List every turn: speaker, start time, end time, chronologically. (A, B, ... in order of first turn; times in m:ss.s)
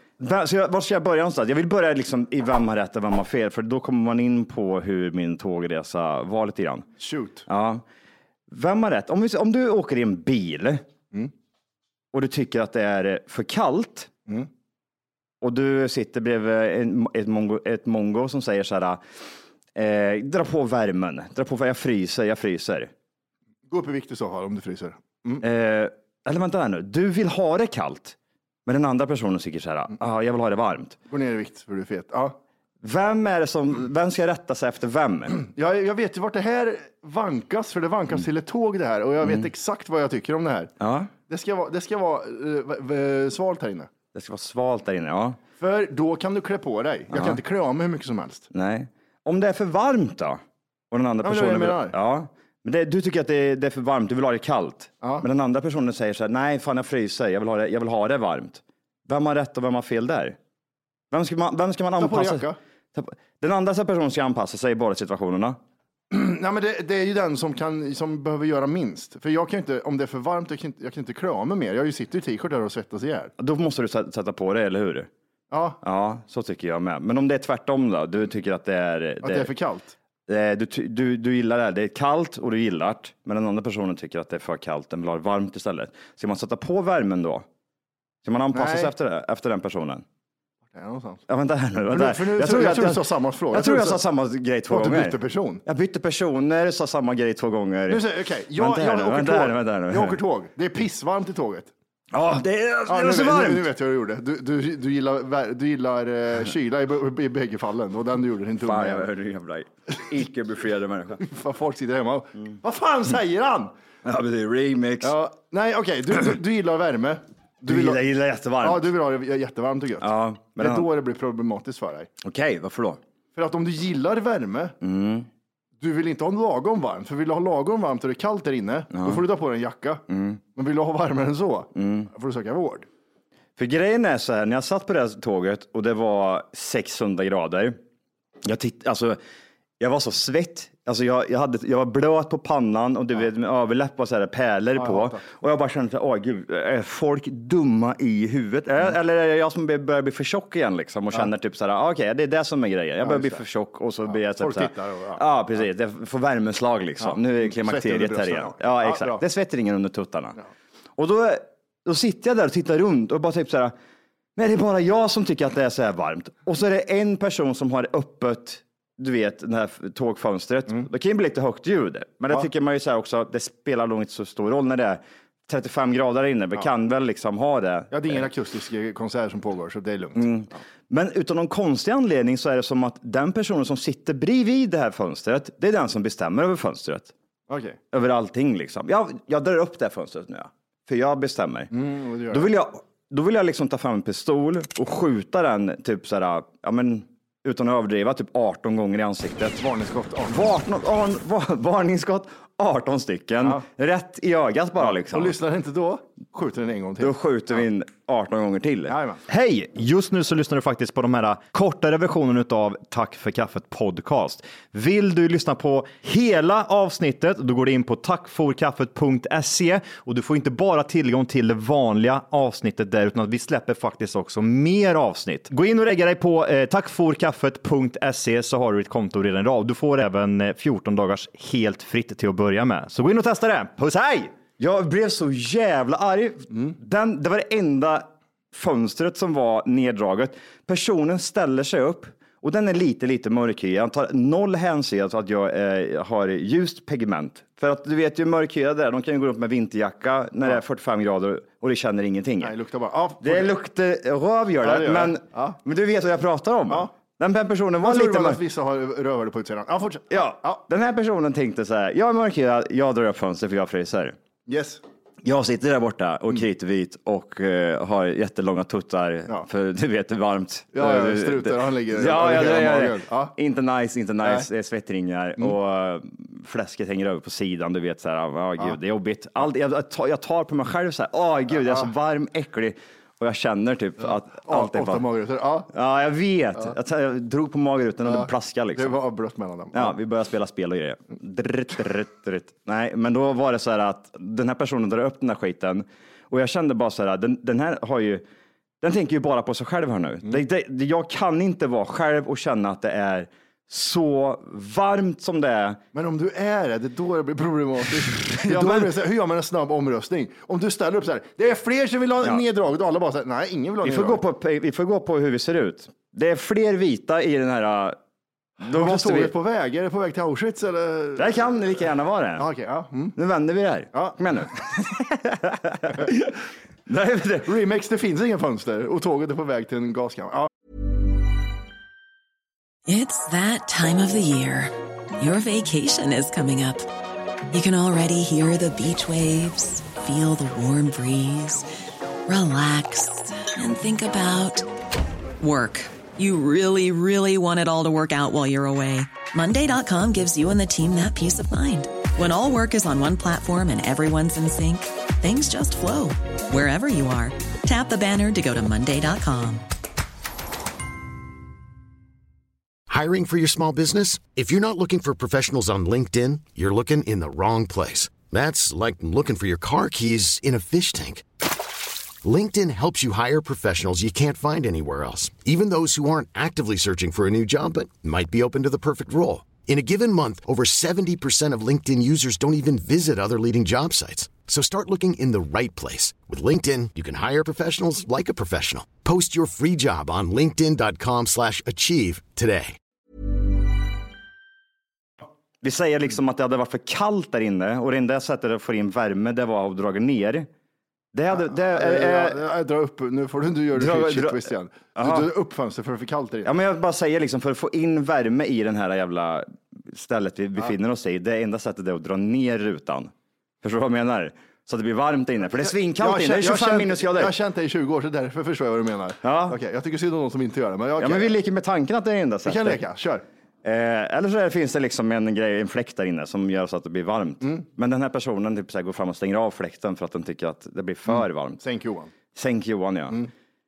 0:00.2-0:06.9 A
0:07.0-0:07.5 B
0:07.5-0:07.8 A
0:08.5-0:10.8 A
0:12.1-0:14.1 A
0:15.4-0:19.0 A
0:19.8-0:22.9 A
0:23.7-0:25.4 B
0:25.4-0:31.0 A
0:31.1-0:32.4 B
0:32.8-0:35.4 A
0:35.4-0:40.7 B
0:39.2-0:39.5 A
0:40.8-0:41.1 A
0:41.3-0:43.9 B
0:44.1-0:45.4 A
0:45.6-0:48.5 B
0:47.1-0:47.4 A
0:48.5-1:00.4 A
0:51.2-0:52.0 B
0:55.0-0:55.3 B
1:01.1-1:05.6 A
1:02.0-1:02.6 B
1:06.1-1:13.3 B
1:13.4-1:15.1 A
1:15.5-1:15.8 B
1:15.8-1:19.5 A
1:19.2-1:19.9 B
1:20.3-1:27.5 A
1:28.2-1:30.0 A
1:28.5-1:28.9 B
1:30.7-1:31.2 B
1:31.3-1:38.0 A
1:31.9-1:34.0 B
1:34.7-1:35.6 B
1:37.9-1:41.7 B
1:38.6-1:40.2 A
1:42.1-1:43.7 A
1:42.9-1:49.1 B
1:48.6-1:51.2 A
1:51.2-1:53.7 B
1:54.0-1:55.2 A
1:55.0-1:58.0 B
1:57.7-1:58.9 A
1:58.6-2:02.1 B
2:00.0-2:00.9 A
2:02.2-2:03.0 A
2:03.4-2:04.8 B
2:04.8-2:05.3 A
2:05.8-2:12.9 B
2:08.9-2:09.2 A
2:10.1-2:10.4 A
2:11.8-2:12.1 A
2:13.6-2:17.8 A
2:18.4-2:19.2 A
2:19.8-2:40.4 A
2:24.8-2:25.2 B
2:33.0-2:33.4 B
2:34.1-2:35.2 B
2:37.0-2:39.2 B
2:41.0-2:43.7 A
2:44.4-2:58.3 A
2:57.9-3:00.4 B
3:00.2-3:07.1 A
3:07.5-3:07.8 B
3:07.9-3:11.7 A
3:11.7-3:12.5 B
3:12.3-3:19.6 A
3:19.6-3:20.5 B
3:20.3-3:25.4 A
3:24.8-3:27.1 B
3:27.0-3:29.0 A
3:28.9-3:29.2 B
3:29.3-3:54.4 C
3:54.6-4:12.5 A
4:12.4-4:13.5 B
4:13.2-4:18.4 A
4:14.6-4:15.6 B
4:17.8-4:20.6 B
4:20.1-4:24.2 A
4:24.5-4:24.8 B
4:25.2-4:45.0 A
4:30.7-4:33.3 B
4:41.5-4:41.9 B
4:44.0-4:45.7 B
4:45.7-4:49.0 A
4:48.0-4:50.0 B
4:49.7-4:58.2 A
4:58.8-5:05.8 A
5:05.9-5:14.2 B
5:08.2-5:08.9 A
5:13.8-5:18.0 A
5:18.6-5:19.4 A
5:18.7-5:21.5 B
5:21.2-5:22.5 A
5:22.4-5:23.2 B
5:23.2-5:27.5 A
5:27.5-5:30.5 B
5:32.9-5:36.9 D
5:37.5-5:41.7 D
5:42.3-5:44.7 D
5:45.4-5:59.6 D
6:02.9-6:11.2 E
6:12.2-6:32.8 E
6:35.6-6:40.5 A
6:41.1-6:42.4 A
6:41.4-6:46.5 B
6:43.8-6:45.3 A
6:46.4-6:57.3 A
6:55.6-7:01.4 B
6:59.2-6:59.6 A
7:01.0-7:02.8 A
7:02.4-7:03.2 B
7:03.6-7:11.6 A
7:11.1-7:12.1 B
7:12.3-7:13.2 A